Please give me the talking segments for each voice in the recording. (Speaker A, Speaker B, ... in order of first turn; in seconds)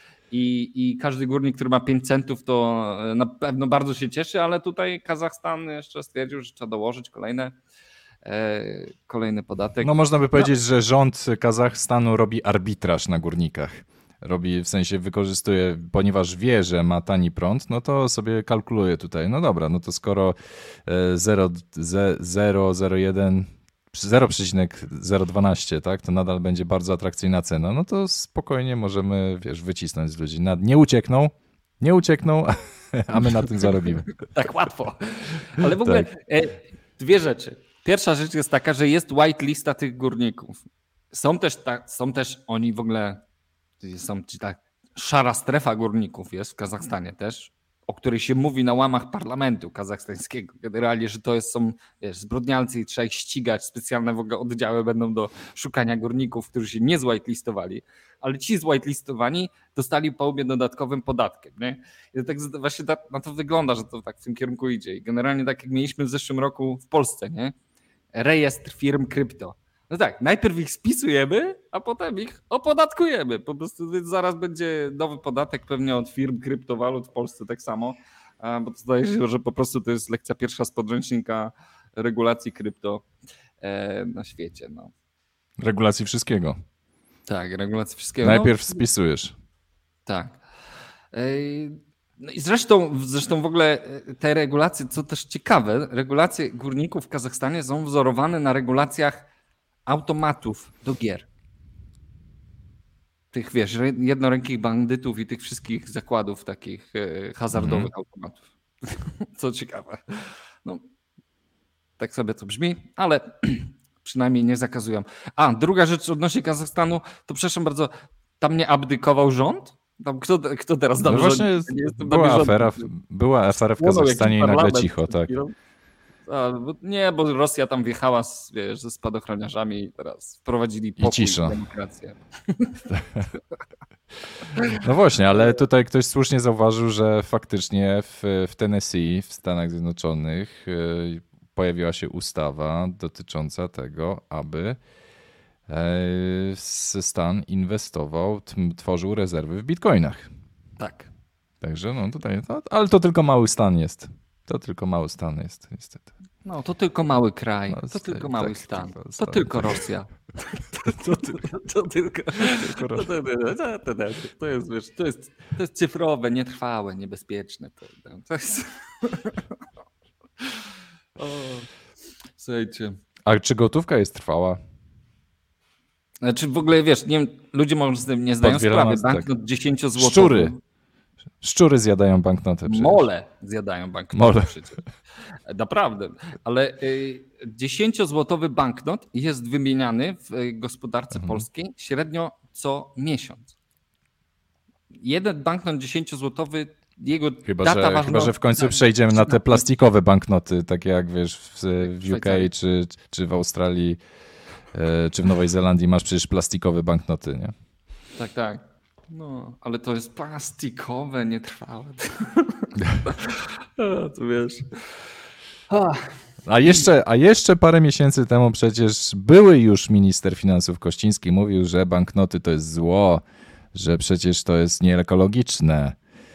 Speaker A: 0.3-7.5, 8.2-10.5, 34.2-43.2, 43.8-67.5, 68.1-83.0, 83.6-84.9, 87.3-88.8, 90.0-90.4, 91.1-99.2, 99.8-101.2, 103.3-110.8, 112.0-122.9, 123.8-125.5, 126.2-132.9, 134.5-134.8, 150.8-151.1, 156.4-169.5, 170.4-170.7, 171.2-171.7, 172.4-173.0, 176.2-180.6, 182.7-184.8, 185.5-193.5, 195.0-199.6, 201.8-202.5, 208.2-214.7, 215.7-216.1
Speaker B: 9.8-34.1, 35.6-36.1, 85.6-86.6, 88.2-89.3, 107.5-107.9, 121.0-125.3, 131.0-131.6, 132.9-133.2, 134.8-144.8, 145.7-150.3, 151.6-156.1, 157.7-159.8, 160.8-161.4, 162.4-163.1, 173.2-174.6, 178.4-179.3, 179.9-180.5, 181.4-183.1, 184.1-184.5, 191.1-191.4, 197.4-204.0, 204.7-207.5, 216.4-223.2, 223.7-226.0